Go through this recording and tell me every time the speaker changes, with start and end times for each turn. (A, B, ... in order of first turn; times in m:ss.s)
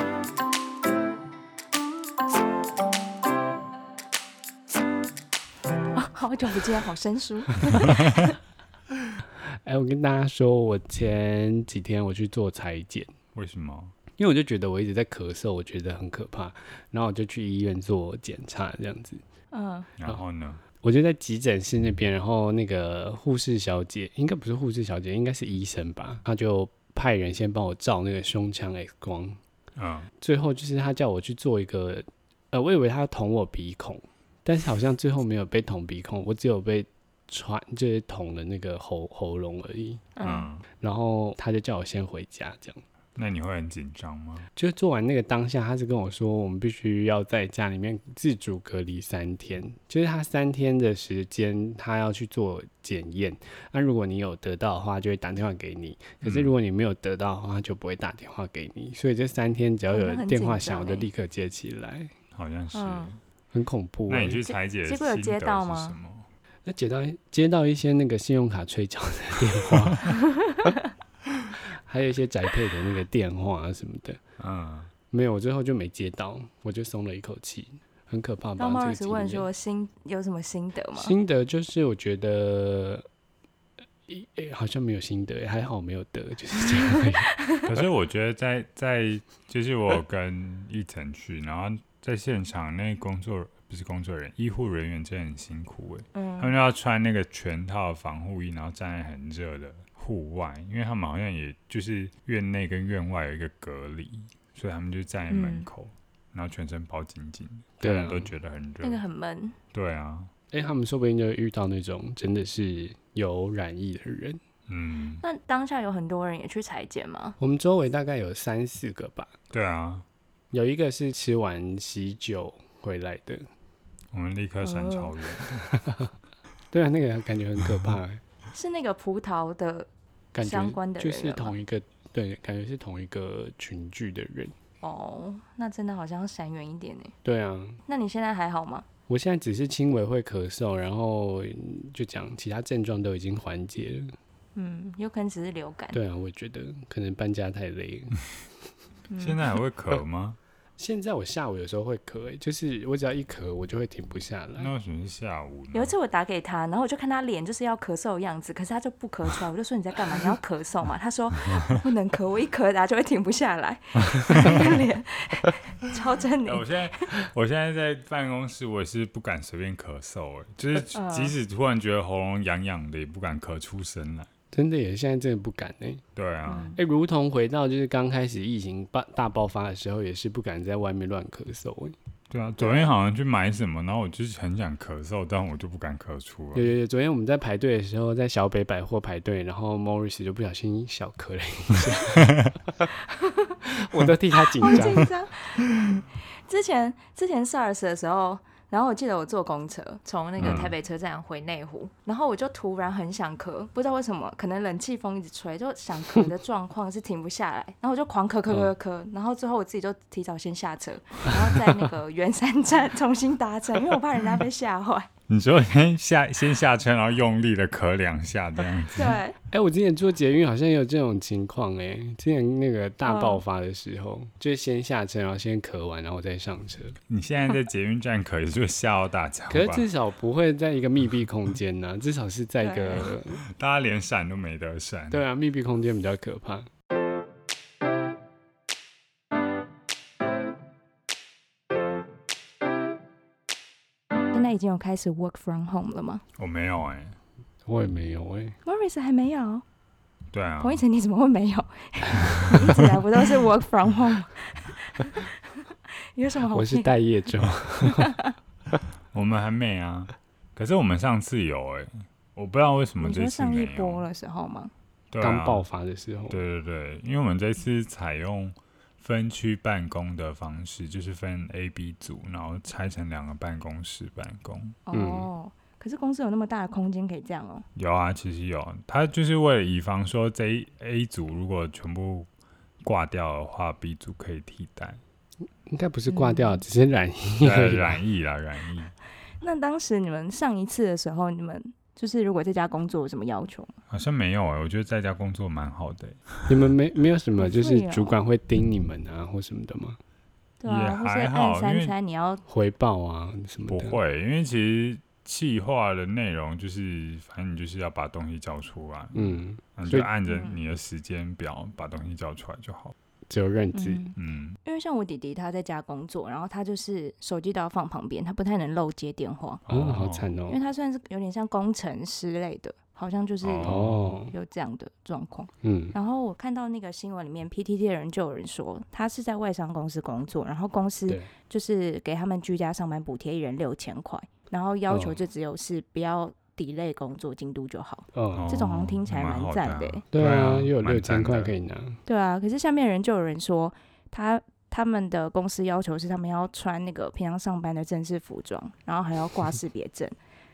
0:05.9-0:08.4 A
0:09.4-0:13.1 B
0:13.3-0:13.9 C
0:14.2-0:19.2 B
0:19.5-0:19.9 A
0:20.0-0:20.6 C
0:20.8-0:29.4 B
0:29.8-0:30.1 C
0:30.2-0:40.1 B
0:40.2-0:40.5 A
0:40.2-0:40.6 C
0:40.8-0:42.8 B
0:43.2-0:44.5 C
0:44.6-1:02.1 B
0:56.2-0:56.5 C
0:59.9-1:01.1 A
1:02.3-1:03.2 C
1:02.7-1:03.1 A
1:03.5-1:04.4 B
1:04.1-1:06.3 C
1:04.5-1:06.0 A
1:06.6-1:10.1 B
1:10.4-1:10.7 A
1:11.8-1:14.2 B
1:14.4-1:14.9 C
1:15.1-1:19.5 B
1:18.6-1:21.1 A
1:21.0-1:23.0 B
1:24.1-1:27.3 B
1:27.4-1:27.7 A
1:27.6-1:49.0 C
1:36.1-1:36.5 A
1:45.3-1:45.7 A
1:47.8-1:48.3 B
1:48.8-1:49.6 A
1:49.7-1:50.3 C
1:50.5-1:54.4 B
1:54.7-1:55.2 C
1:55.2-1:57.4 A
1:57.4-1:59.3 B
1:59.5-2:00.0 C
2:00.5-2:03.5 B
2:04.1-2:05.7 C
2:04.6-2:05.1 A
2:05.7-2:06.1 B
2:06.7-2:08.2 B
2:08.5-2:09.9 A
2:10.3-2:14.5 B
2:10.4-2:11.5 A
2:14.8-2:17.1 A
2:17.2-2:17.8 B
2:17.9-2:18.8 A
2:19.1-2:24.1 B
2:24.6-2:26.0 A
2:25.9-2:28.2 B
2:29.1-2:29.4 A
2:29.2-2:30.4 C
2:30.8-2:34.7 B
2:34.6-2:35.9 C
2:35.7-2:47.1 A
2:44.3-2:44.8 C
2:46.4-2:54.3 C
2:50.9-2:51.3 A
2:54.5-2:56.0 B
2:56.1-2:56.8 C
2:56.4-2:56.8 A
2:56.7-3:01.9 B
3:02.3-3:06.7 C
3:02.6-3:02.9 B
3:06.5-3:12.8 B
3:13.1-3:13.6 A
3:13.6-3:15.1 B
3:14.6-3:35.1 A
3:20.4-3:20.7 C
3:20.4-3:20.7 B
3:35.3-3:39.2 C
3:38.9-3:39.4 A
3:39.5-3:47.0 B
3:43.0-3:43.4 A
3:47.1-3:49.8 C
3:49.5-3:53.4 B
3:52.6-3:53.1 A
3:53.4-3:55.2 C
3:55.1-3:56.7 B
4:04.3-4:06.2 A
4:06.4-4:07.2 C
4:07.6-4:08.6 B
4:08.6-4:09.6 A
4:10.3-4:10.8 C
4:10.6-4:16.9 A
4:16.5-4:18.2 B
4:17.9-4:18.3 A
4:19.1-4:24.0 C
4:23.0-4:24.7 A
4:25.1-4:25.6 C
4:25.2-4:26.4 B
4:26.3-4:34.8 C
4:34.8-4:37.6 A
4:34.9-4:35.3 B
4:37.8-4:42.3 C
4:42.8-4:45.0 C
4:45.7-4:48.0 B
4:46.1-4:46.6 A
4:47.4-4:48.9 C
4:49.4-4:53.7 A
4:53.9-4:56.4 C
4:56.5-5:00.0 B
4:57.4-4:58.2 A
5:00.6-5:02.4 A
5:00.6-5:01.9 C
5:02.5-5:04.0 B
5:03.7-5:12.9 C
5:09.1-5:10.1 B
5:10.3-5:10.6 A
5:13.3-5:14.0 B
5:13.7-5:19.6 A
5:14.2-5:14.6 C
5:19.7-5:20.3 C
5:19.7-5:20.6 B
5:20.5-5:40.0 A
5:23.4-5:24.1 C
5:23.6-5:24.3 B
5:25.6-5:25.9 B
5:34.9-5:35.2 B
5:38.1-5:38.4 B
5:38.3-5:41.5 C
5:40.1-5:42.0 B
5:42.0-5:50.1 A